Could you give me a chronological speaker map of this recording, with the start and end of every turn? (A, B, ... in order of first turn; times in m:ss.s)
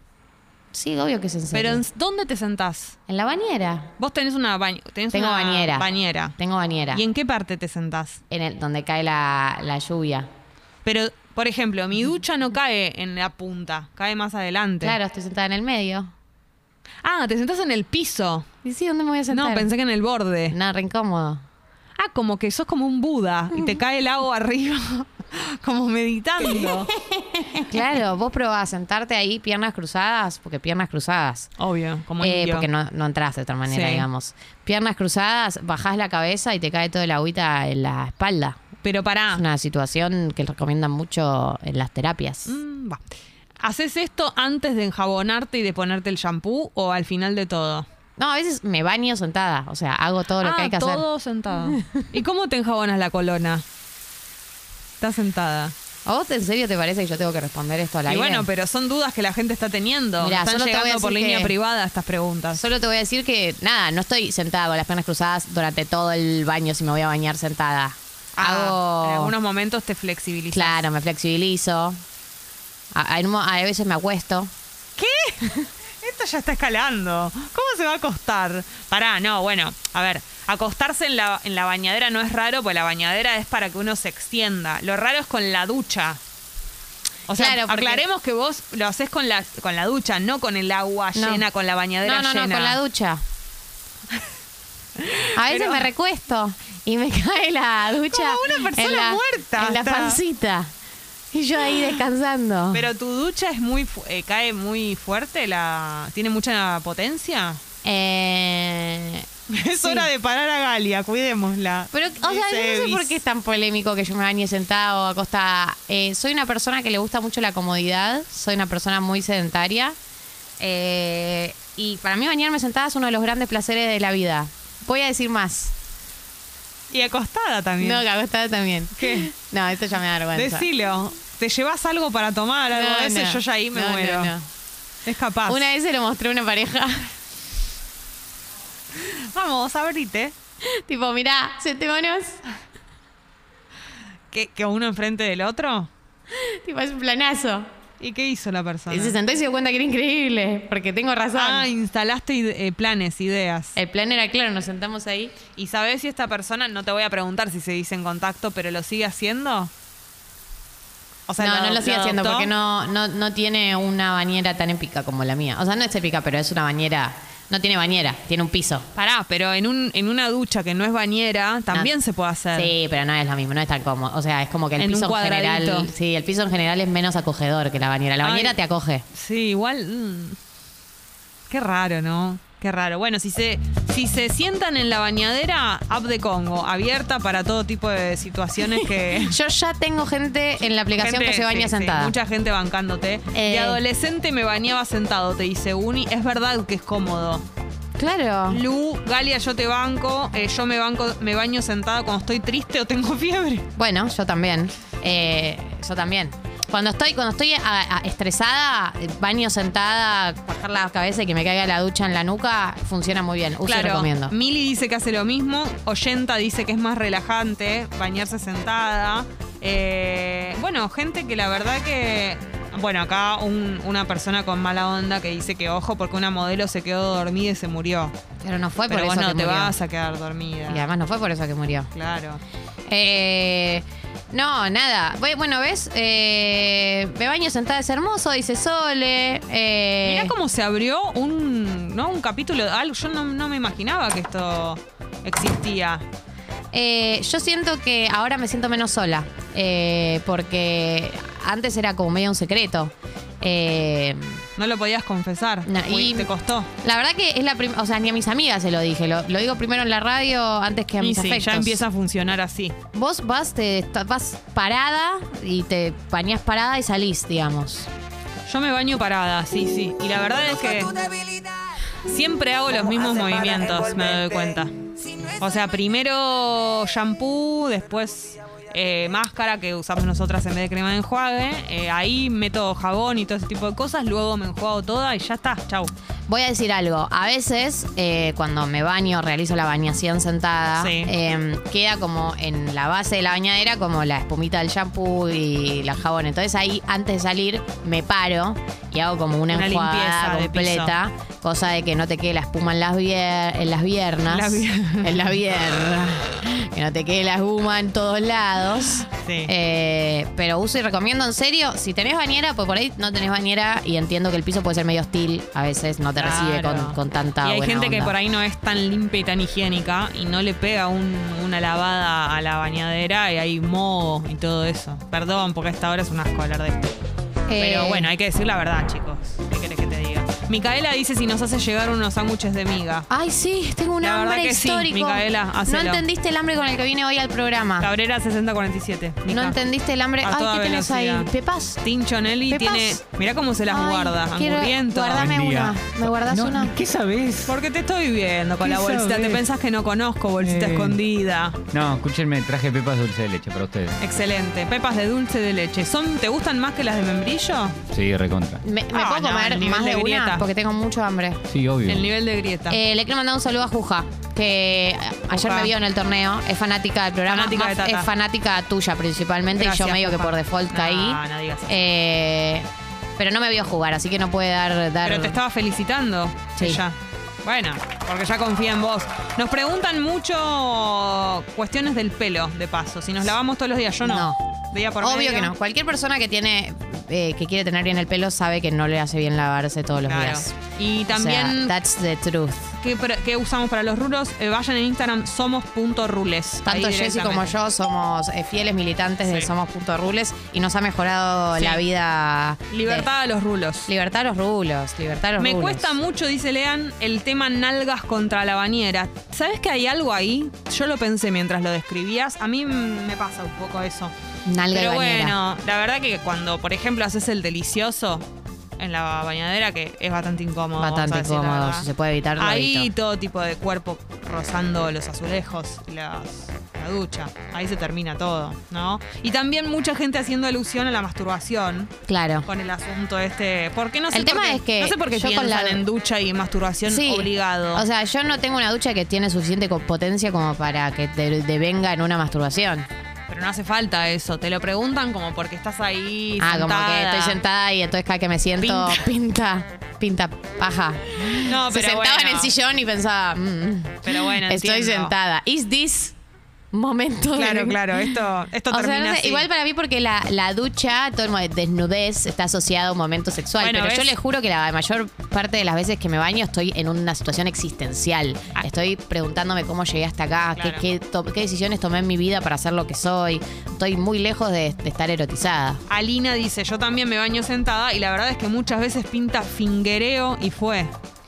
0:00.7-0:01.8 A
0:01.5-0:03.0 B
0:03.1-0:03.9 A
0:04.0-0:06.4 B
0:05.1-0:07.0 A
0:06.9-0:08.2 B
0:08.3-0:10.3 A
0:10.8-0:15.0 B
0:14.8-0:16.1 A
0:17.0-0:18.5 B
0:18.6-0:19.7 A
0:19.3-0:20.5 B
0:20.5-0:21.4 A
0:22.0-0:26.9 B
0:26.4-0:31.5 A
0:31.6-0:32.7 B
0:32.2-0:38.6 A
0:33.7-0:34.0 B
0:38.8-0:39.4 B
0:39.3-0:42.6 A
0:42.4-0:43.0 B
0:43.6-0:47.9 B
0:48.2-0:51.0 A
0:50.4-0:53.6 B
0:51.7-0:52.0 A
0:55.0-0:55.7 B
0:56.0-0:58.5 A
0:58.1-1:02.6 B
1:00.2-1:01.5 A
1:02.5-1:09.3 A
1:08.4-1:10.8 B
1:10.5-1:12.0 A
1:12.9-1:14.5 A
1:15.0-1:26.2 B
1:27.3-1:32.8 B
1:27.3-1:28.0 A
1:31.1-1:31.4 A
1:32.0-1:33.2 A
1:35.0-1:35.9 B
1:35.3-1:40.7 A
1:38.1-1:40.2 B
1:41.3-1:42.9 A
1:42.7-1:47.6 B
1:47.8-1:49.2 A
1:49.5-1:53.2 B
1:49.8-1:50.1 A
1:51.9-1:59.9 A
2:00.6-2:05.7 A
2:06.9-2:08.0 B
2:07.8-2:10.7 A
2:09.0-2:09.3 B
2:10.3-2:14.3 B
2:12.7-2:14.4 A
2:15.0-2:15.7 B
2:15.5-2:17.1 A
2:18.9-2:20.3 B
2:20.6-2:22.4 A
2:24.3-2:25.9 B
2:26.3-2:27.7 A
2:28.0-2:29.2 B
2:28.9-2:31.7 A
2:31.3-2:33.8 B
2:33.8-2:35.4 A
2:35.6-2:39.7 B
2:41.3-2:42.5 B
2:41.4-2:48.8 A
2:48.9-2:52.7 B
2:52.5-2:59.0 A
2:54.8-2:55.9 B
2:58.2-2:58.6 B
2:59.1-3:00.4 B
3:01.5-3:09.4 B
3:08.7-3:12.1 A
3:11.0-3:17.4 B
3:13.3-3:13.8 A
3:18.0-3:18.6 A
3:18.5-3:23.6 B
3:23.8-3:34.3 A
3:33.6-3:48.1 B
3:48.4-3:49.7 A
3:48.9-3:50.9 B
3:50.7-3:51.9 A
3:51.9-3:52.4 B
3:52.9-4:00.3 A
4:00.0-4:06.0 B
4:06.7-4:14.4 A
4:14.6-4:16.7 B
4:15.6-4:16.3 A
4:16.8-4:21.8 A
4:21.0-4:22.7 B
4:22.9-4:27.9 A
4:28.4-4:30.9 B
4:32.0-4:34.7 B
4:35.4-4:45.9 B
4:46.3-5:18.1 A
4:50.8-4:51.1 B
4:59.5-5:01.0 B
5:04.3-5:05.3 B
5:09.1-5:09.5 B
5:16.2-5:26.9 B
5:27.5-5:28.1 A
5:27.5-5:33.1 B
5:33.1-5:37.9 A
5:34.0-5:36.0 B
5:37.8-5:39.6 B
5:39.3-5:41.8 A
5:40.2-5:41.3 B
5:41.8-5:45.2 B
5:42.5-5:43.0 A
5:43.7-5:46.7 A
5:45.1-5:47.6 C
5:47.4-5:51.6 B
5:48.6-5:49.4 C
5:50.4-5:51.0 C
5:51.7-5:54.0 C
5:54.0-5:57.8 B
5:57.9-5:58.6 C
5:58.6-6:01.4 A
5:58.9-6:00.4 B
6:01.5-6:02.1 C
6:01.8-6:02.8 B
6:02.7-6:12.7 A
6:05.4-6:05.7 B
6:07.3-6:08.1 B
6:09.5-6:11.8 B
6:13.2-6:15.4 A
6:15.0-6:25.5 B
6:16.6-6:16.8 A
6:24.0-6:24.4 A
6:25.0-6:30.5 A
6:30.0-6:31.7 B
6:31.1-6:32.7 A
6:32.8-6:37.5 B
6:36.6-6:43.1 A
6:39.2-6:39.5 B
6:41.5-6:41.8 B
6:42.7-6:43.9 B
6:43.9-6:46.0 A
6:45.4-6:54.1 B
6:54.4-6:55.4 A
6:54.7-6:58.3 B
6:58.8-7:11.9 B
7:00.8-7:02.9 A
7:12.1-7:12.5 A
7:12.4-7:17.8 B
7:14.1-7:15.8 A
7:16.8-7:22.9 A
7:23.3-7:27.4 B
7:26.4-7:36.2 A
7:28.6-7:29.0 B
7:31.4-7:32.5 B
7:34.0-7:35.1 B
7:36.7-7:55.8 A
7:37.3-7:39.5 B
7:43.6-7:44.1 B
7:50.6-7:50.8 B
7:55.9-8:00.9 B